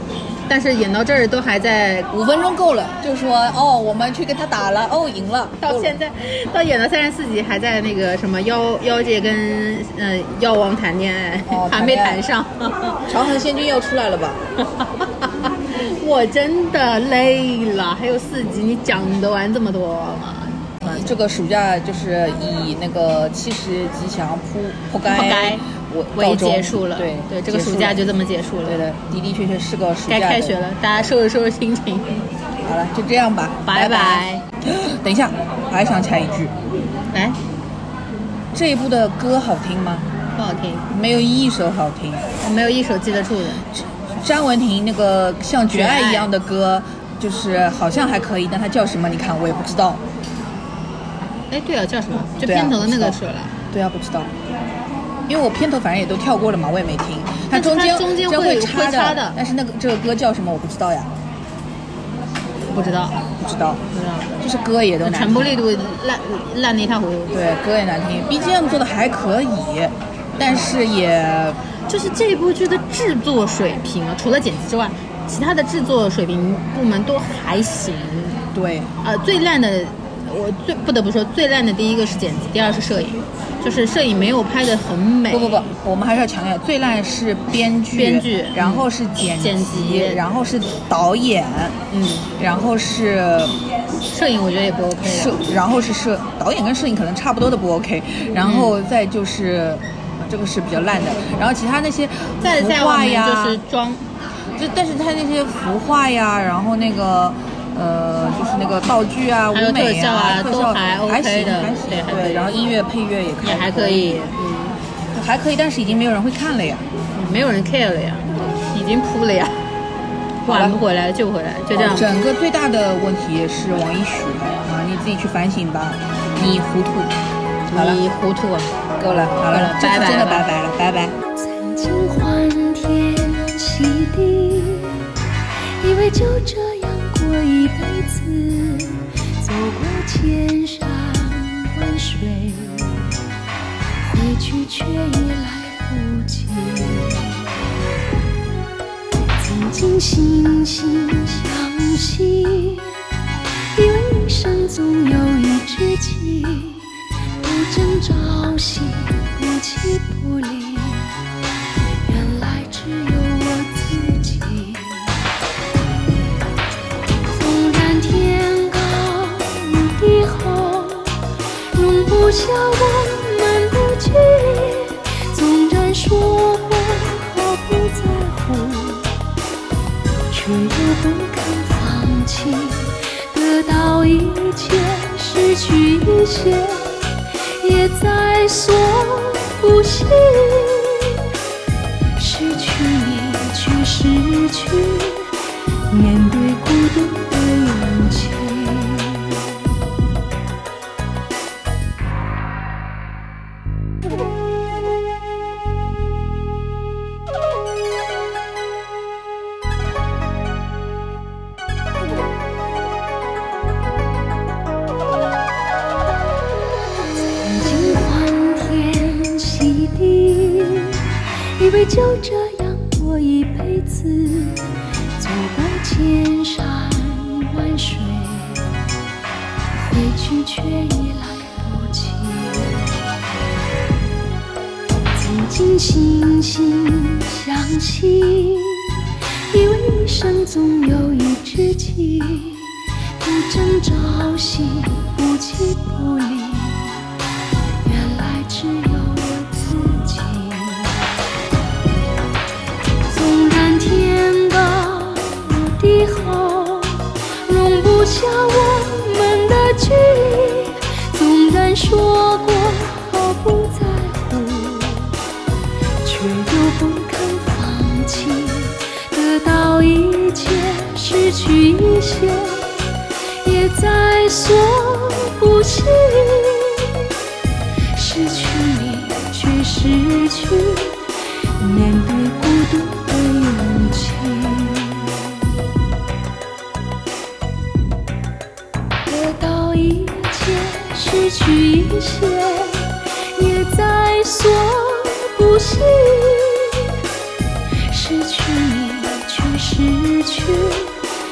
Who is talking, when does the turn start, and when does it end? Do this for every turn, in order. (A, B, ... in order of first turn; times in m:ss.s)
0:00.5-0:02.1 A
0:02.1-0:06.0 B
0:05.6-0:13.1 A
0:11.5-0:12.2 B
0:13.1-0:14.4 B
0:14.6-0:21.1 A
0:20.8-0:28.1 B
0:25.0-0:25.6 A
0:26.2-0:28.8 A
0:28.6-0:30.6 B
0:30.1-0:32.3 A
0:32.6-0:36.5 B
0:33.7-0:34.4 A
0:37.1-0:37.4 A
0:38.5-0:40.1 B
0:40.4-0:40.9 A
0:40.9-0:42.2 B
0:42.4-0:43.7 A
0:43.8-0:50.0 B
0:45.7-0:46.3 A
0:51.5-0:53.6 A
0:52.4-0:53.2 B
0:53.7-0:54.3 B
0:55.3-1:01.1 B
0:57.5-0:59.4 A
1:02.7-1:03.2 A
1:03.4-1:03.8 B
1:03.9-1:04.4 A
1:04.4-1:05.6 B
1:05.0-1:07.3 A
1:07.3-1:11.6 B
1:11.9-1:18.4 A
1:18.5-1:18.9 B
1:19.0-1:25.6 A
1:25.3-1:31.8 B
1:27.9-1:30.2 A
1:31.9-1:32.3 A
1:32.4-1:33.6 B
1:34.1-1:35.4 A
1:35.0-1:43.6 B
1:38.4-1:38.7 A
1:42.4-1:44.0 A
1:44.6-1:54.2 B
1:49.5-1:52.5 A
1:53.4-1:54.8 A
1:55.1-1:56.8 B
1:57.2-1:59.6 A
2:00.4-2:00.8 B
2:00.5-2:02.2 A
2:01.7-2:07.2 B
2:07.7-2:08.0 B
2:07.7-2:08.8 A
2:09.0-2:11.2 B
2:09.4-2:10.5 A
2:11.2-2:15.0 C
2:15.6-2:23.1 C
2:24.0-2:27.5 C
2:29.4-2:33.0 C
2:33.8-2:41.1 C
2:42.0-2:45.2 C
2:47.3-2:51.2 C
2:51.7-2:59.1 C
3:00.3-3:11.2 C
3:12.1-3:15.4 C
3:15.9-3:19.4 C
3:37.4-3:41.0 C
3:41.6-3:44.7 C
3:45.2-3:48.7 C
3:49.7-3:52.8 C
3:55.2-3:58.9 C
3:59.5-4:07.0 C
4:07.8-4:11.0 C
4:13.1-4:25.2 C
4:26.0-4:32.7 C
4:33.4-4:37.1 C
4:37.9-4:45.4 C
4:49.1-4:56.9 C
4:57.9-5:01.0 C